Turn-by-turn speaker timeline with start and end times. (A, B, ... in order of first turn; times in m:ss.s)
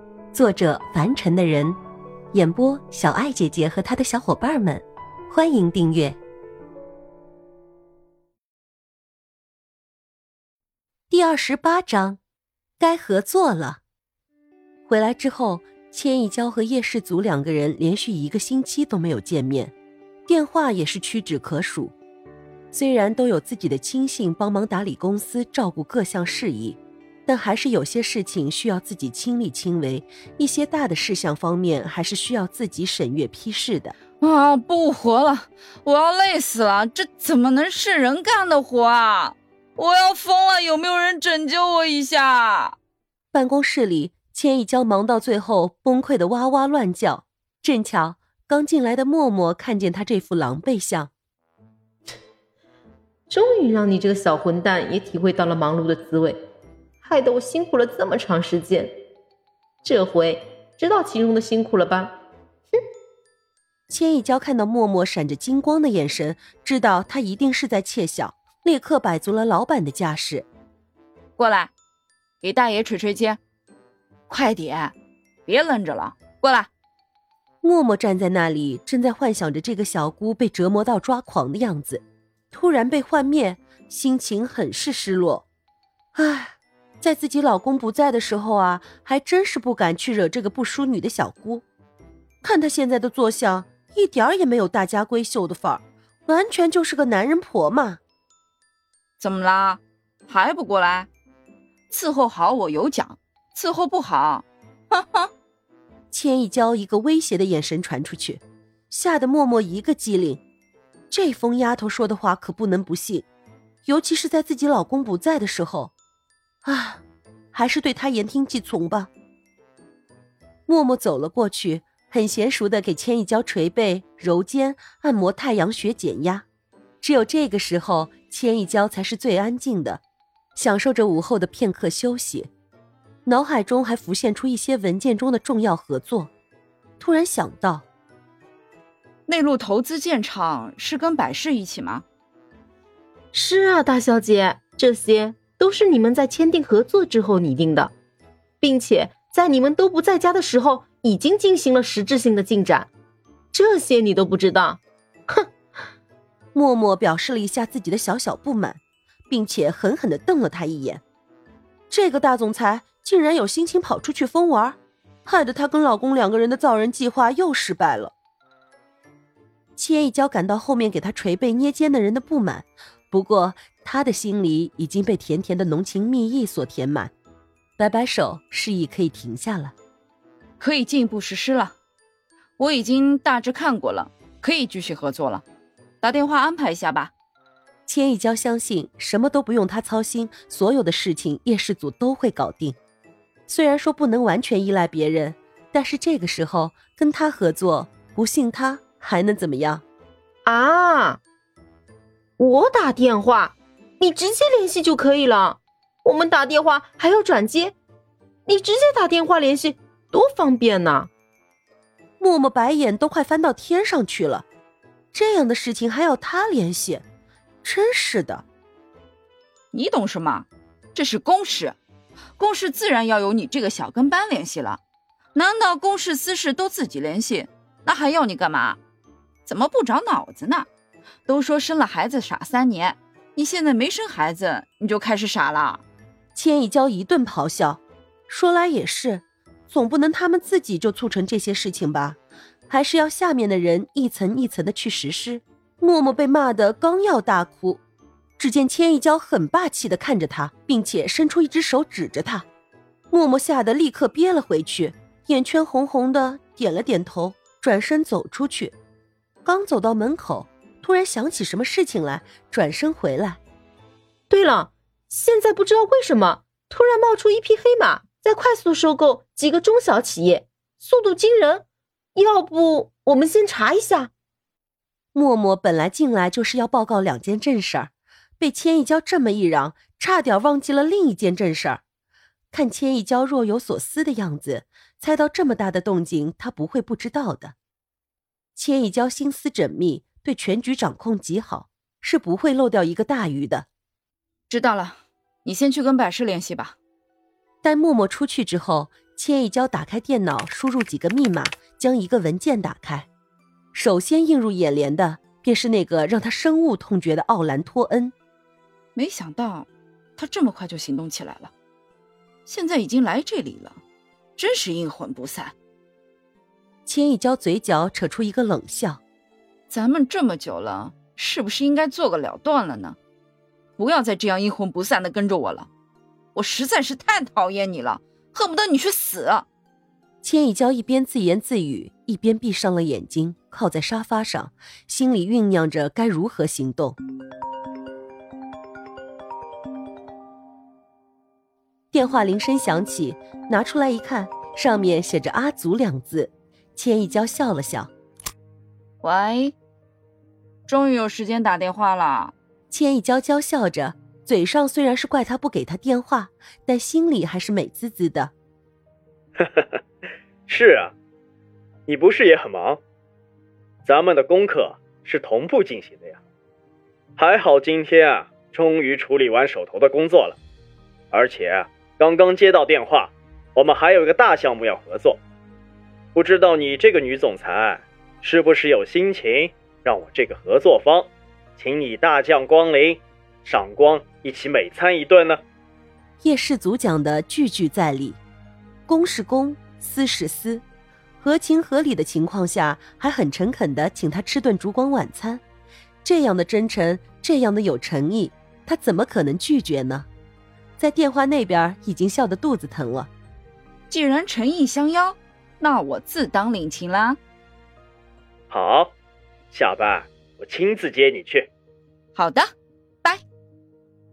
0:00.3-0:01.7 A
0:02.3-0:06.1 A
0:11.1-0:12.2 A
0:12.8-0:13.8 A
0:14.9-0:19.7 A
0:20.3-0:21.9 A
0:22.7-0:33.9 A
0:34.2-0:42.8 B
0:43.3-0:51.1 A
0:53.3-0:56.4 C
0:57.0-0:58.9 C
0:59.8-1:02.1 C
1:03.9-1:10.5 A
1:11.4-1:11.7 B
1:12.4-1:13.4 B
1:14.3-1:14.9 B
1:15.4-1:16.7 B
1:17.6-1:25.4 A
1:26.1-1:31.6 A
1:32.4-1:38.0 A
1:39.2-1:41.1 B
1:41.9-1:45.3 B
1:46.1-1:50.4 A
1:51.1-1:53.3 A
1:53.8-1:55.9 A
1:56.6-1:57.0 A
1:57.5-1:59.1 A
2:00.7-2:06.4 A
2:07.0-2:10.0 A
2:10.5-2:12.5 A
2:13.2-2:16.3 A
2:17.0-2:17.8 A
2:19.2-2:22.0 B
2:23.3-2:27.9 C
2:28.6-2:32.9 C
2:33.5-2:35.5 C
2:36.5-2:41.0 A
2:41.9-2:48.1 A
2:49.8-2:57.1 A
2:57.8-2:59.7 A
3:00.6-3:01.7 B
3:02.6-3:05.4 B
3:06.0-3:07.1 B
3:07.9-3:12.8 A
3:13.5-3:19.8 A
3:20.4-3:21.2 C
3:22.4-3:27.8 C
3:28.4-3:31.1 C
3:32.2-3:34.4 A
3:35.1-3:37.0 A
3:37.6-3:38.4 A
3:39.7-3:41.8 B
3:42.4-3:44.8 B
3:45.3-3:48.8 B
3:49.4-3:50.7 B
3:51.2-3:55.8 B
3:56.3-4:07.8 A
4:08.4-4:12.4 A
4:13.1-4:18.7 A
4:19.4-4:23.4 A
4:24.3-4:34.1 C
4:35.1-4:41.8 A
4:42.5-4:47.5 A
4:48.6-4:53.7 A
4:54.5-4:56.8 B
4:57.6-5:03.1 A
5:03.7-5:08.1 A
5:08.9-5:11.5 B
5:12.4-5:13.8 B
5:14.4-5:15.5 B
5:16.8-5:19.0 A
5:19.7-5:23.0 B
5:23.8-5:25.7 B
5:26.3-5:29.5 B
5:30.2-5:37.0 A
5:41.9-5:47.9 A
5:49.0-5:49.5 B
5:50.7-5:52.3 B
5:52.7-5:58.3 A
5:59.4-5:59.8 D
6:00.5-6:00.9 D
6:01.9-6:02.8 D
6:03.8-6:06.2 D
6:07.2-6:10.4 D
6:11.1-6:15.2 D
6:16.1-6:25.4 D
6:26.2-6:28.2 A
6:28.9-6:30.6 A
6:31.2-6:35.4 A
6:36.0-6:40.1 A
6:40.8-6:43.1 A
6:43.9-6:47.2 B
6:48.5-6:48.9 D
6:49.5-6:51.5 D
6:52.1-6:52.5 B